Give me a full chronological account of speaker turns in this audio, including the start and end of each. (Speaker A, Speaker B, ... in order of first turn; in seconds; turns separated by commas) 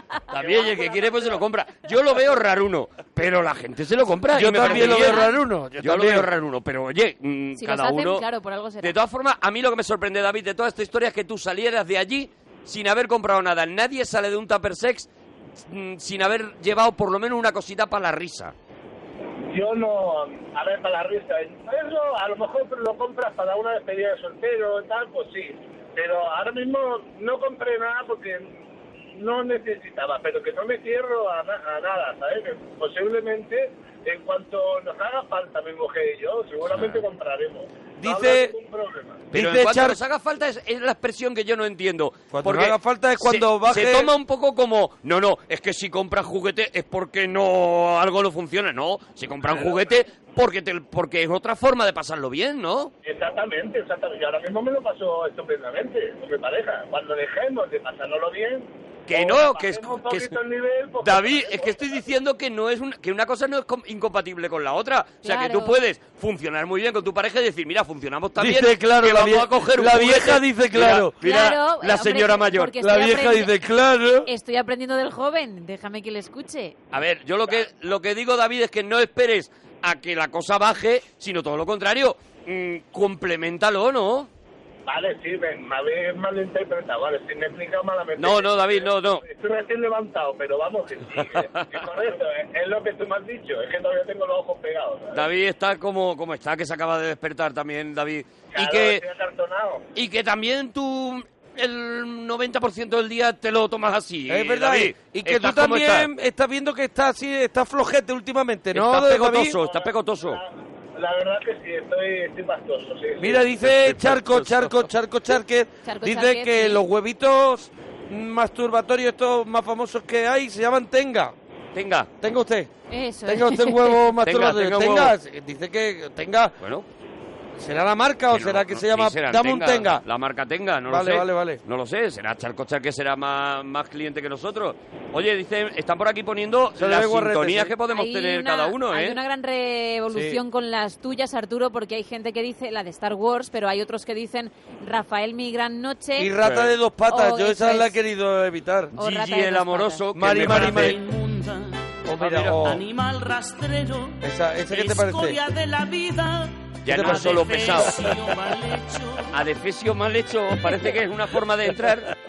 Speaker A: 0.3-8.2, Speaker B: 0.3-1.4, Speaker C: 4.3-6.3, Speaker D: 4.6-5.3, Speaker D: 7.6-8.9, Speaker A: 8.8-15.1, Speaker A: 15.6-18.5, Speaker B: 19.5-28.6, Speaker B: 29.1-39.2, Speaker A: 36.6-37.0, Speaker C: 38.0-38.5, Speaker C: 39.3-40.0, Speaker A: 39.3-52.9, Speaker C: 42.3-44.1, Speaker B: 53.0-62.0, Speaker A: 59.1-60.4, Speaker A: 61.0-72.8, Speaker D: 65.2-65.8, Speaker C: 68.4-71.1, Speaker D: 71.2-73.5, Speaker C: 72.8-74.3, Speaker D: 74.2-76.7, Speaker A: 76.9-84.3, Speaker B: 84.9-95.2, Speaker A: 88.2-89.2, Speaker A: 91.2-91.8, Speaker A: 95.1-99.0, Speaker B: 98.5-99.8, Speaker A: 99.9-106.1, Speaker C: 104.3-109.5, Speaker A: 108.7-110.4, Speaker B: 109.6-113.4, Speaker C: 113.2-121.3, Speaker A: 113.6-114.7, Speaker D: 115.8-116.8, Speaker A: 121.7-122.1, Speaker C: 122.2-122.7, Speaker D: 122.9-124.0, Speaker C: 123.3-126.5, Speaker A: 124.2-125.1, Speaker A: 126.6-126.9, Speaker C: 127.6-130.0, Speaker A: 128.3-139.2, Speaker C: 130.9-131.6, Speaker C: 136.8-137.7, Speaker D: 137.9-146.3, Speaker C: 140.1-140.4, Speaker C: 146.2-148.9, Speaker A: 146.4-146.7, Speaker D: 147.1-147.9, Speaker D: 148.9-150.0, Speaker A: 148.9-151.0, Speaker C: 150.1-150.9, Speaker E: 150.4-151.9, Speaker C: 152.1-152.8, Speaker A: 152.2-152.6, Speaker E: 152.6-159.4, Speaker C: 154.2-155.4, Speaker A: 156.8-158.1, Speaker C: 156.9-157.9, Speaker A: 159.3-162.1